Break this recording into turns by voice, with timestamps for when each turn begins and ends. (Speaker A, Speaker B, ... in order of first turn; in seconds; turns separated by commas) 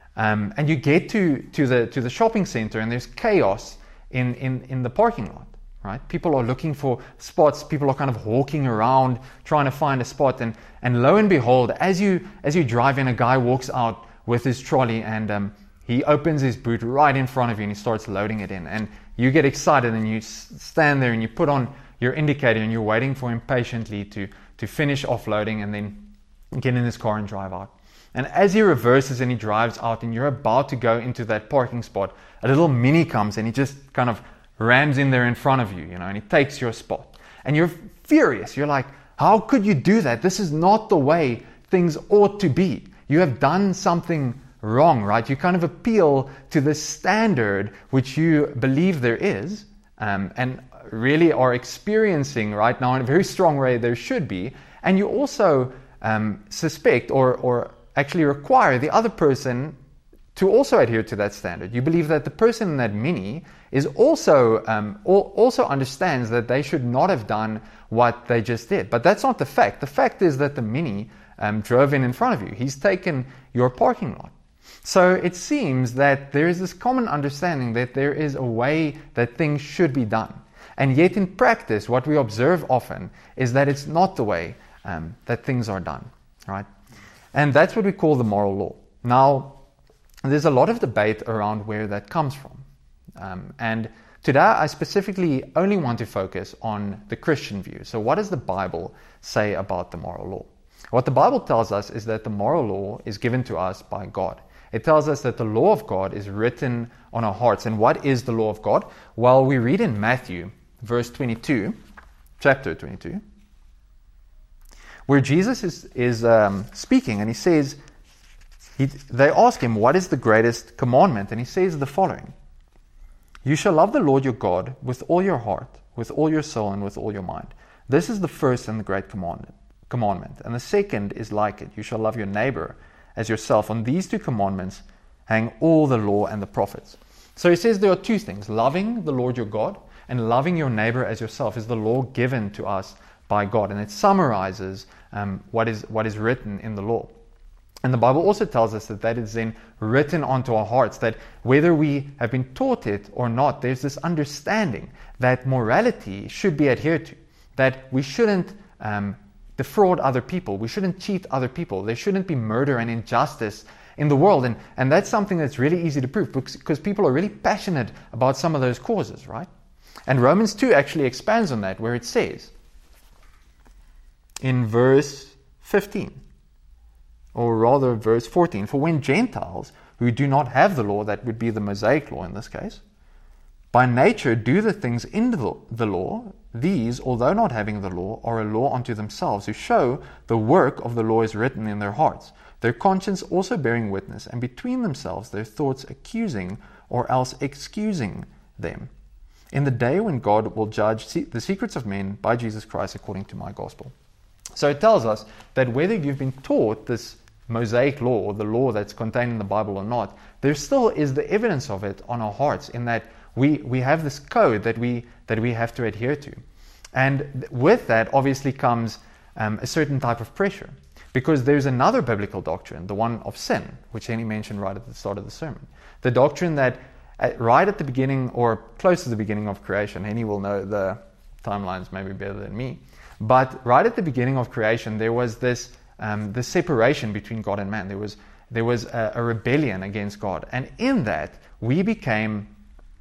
Speaker A: 0.1-59.8, Speaker A: 60.3-74.3, Speaker A: 74.8-86.7, Speaker A: 87.3-89.6, Speaker A: 90.2-92.6, Speaker A: 93.2-111.8, Speaker A: 112.4-113.2, Speaker A: 115.1-117.8, Speaker A: 118.8-122.3, Speaker A: 123.4-147.1, Speaker A: 147.8-169.5, Speaker A: 170.1-172.5, Speaker A: 174.4-176.2, Speaker A: 177.3-182.8, Speaker A: 183.7-198.9, Speaker A: 199.5-203.9, Speaker A: 204.5-216.4, Speaker A: 216.9-242.5